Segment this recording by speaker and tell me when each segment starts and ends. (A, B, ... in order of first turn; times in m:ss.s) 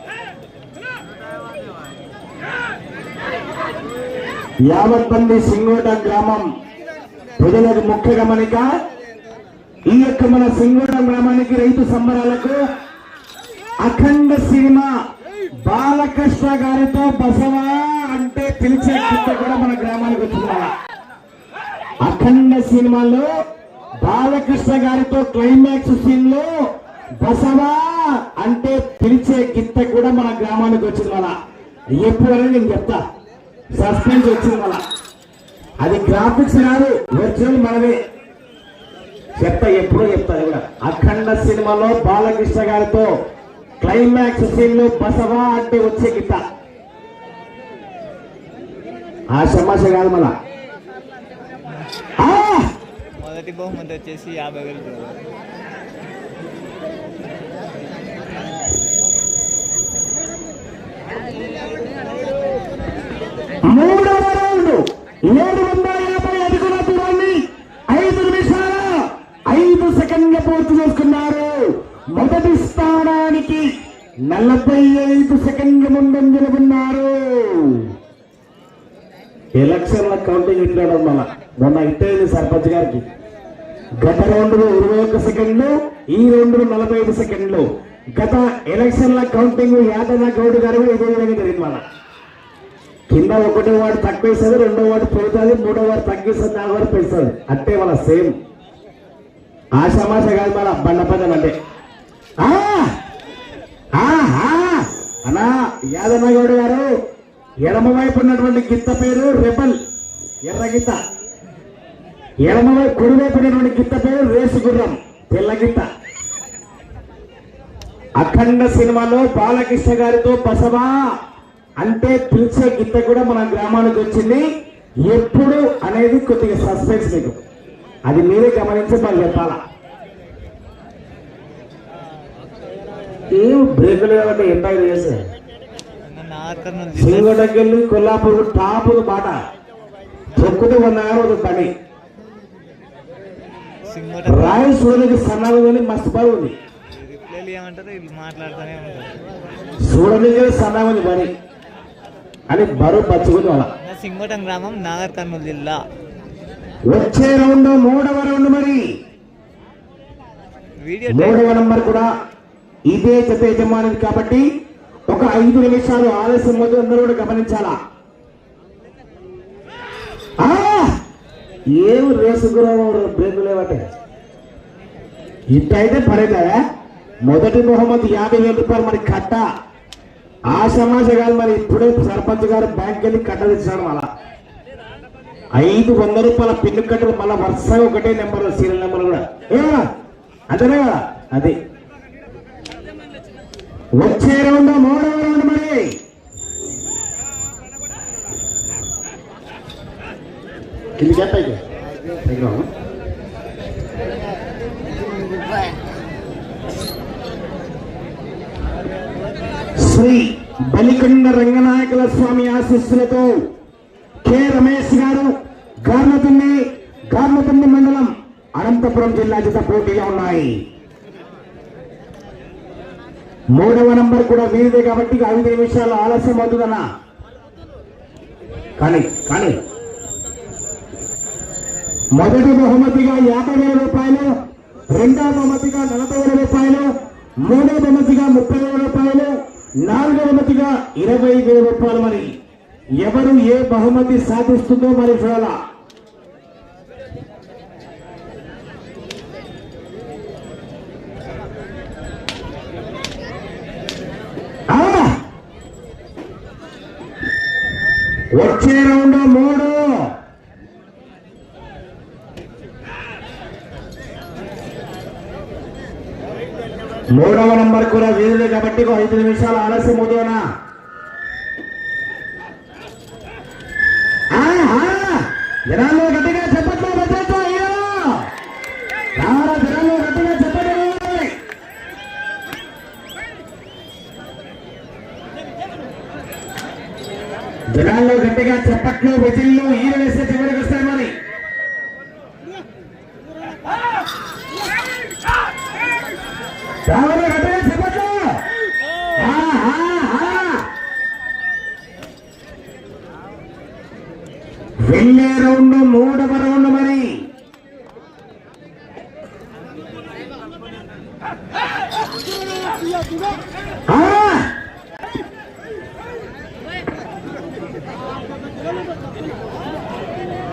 0:04.7-0:06.5 A
0:07.4-0:08.7 A
0:09.9-0:12.6 A
0:13.8-0:14.9 A
0:15.6-0:20.7 A
0:22.0-0:23.3 A
0:24.0-0:26.5 A
0:27.2-0:31.3 A
0:32.0-0:33.0 A
0:33.8-0:34.8 A
0:35.8-0:38.0 A
0:39.4-0:43.1 A
0:43.8-0:46.4 A
0:49.3-0:50.3 A
0:52.2-0:52.7 A
0:53.2-0:55.2 B
1:03.6-1:13.7 A
1:14.3-1:17.9 A
1:19.6-1:23.0 A
1:24.0-1:31.8 A
1:33.1-1:38.3 A
1:39.8-1:41.5 A
1:42.4-1:42.9 A
1:44.0-1:46.9 A
1:47.6-1:49.8 A
1:50.4-1:51.0 A
1:52.4-1:55.8 A
1:58.2-2:00.9 A
2:01.8-2:04.5 A
2:05.0-2:07.4 A
2:08.1-2:09.6 A
2:13.3-2:15.2 A
2:16.0-2:17.4 B
2:17.0-2:19.4 A
2:20.4-2:21.7 A
2:23.9-2:24.6 B
2:24.3-2:26.6 A
2:26.9-2:29.2 B
2:29.9-2:31.3 A
2:32.5-2:33.7 A
2:33.8-2:35.8 B
2:36.9-2:38.8 A
2:40.8-2:41.5 B
2:41.1-2:42.1 A
2:42.9-2:44.5 A
2:45.1-2:47.8 A
2:50.4-2:50.9 A
2:51.8-2:53.8 A
2:55.5-2:56.6 A
2:57.3-2:59.5 A
3:00.5-3:04.1 A
3:05.6-3:09.8 A
3:10.5-3:11.6 A
3:14.0-3:15.9 A
3:21.0-3:21.6 A
3:22.2-3:22.7 A
3:29.8-3:33.4 A
3:34.2-3:35.3 A
3:35.9-3:40.6 A
3:43.5-3:46.8 A
3:48.8-3:49.6 A
3:52.2-3:54.3 A
3:54.9-3:56.9 A
3:57.4-3:59.3 A
3:59.8-4:02.3 A
4:03.0-4:05.6 A
4:14.7-4:15.2 A
4:18.3-4:20.1 A
4:27.1-4:30.4 A
4:34.3-4:38.2 A
4:39.2-4:41.3 A
4:47.7-4:51.1 A
4:56.9-4:58.3 A
4:59.2-5:00.6 A
5:04.8-5:07.1 A
5:13.9-5:14.5 A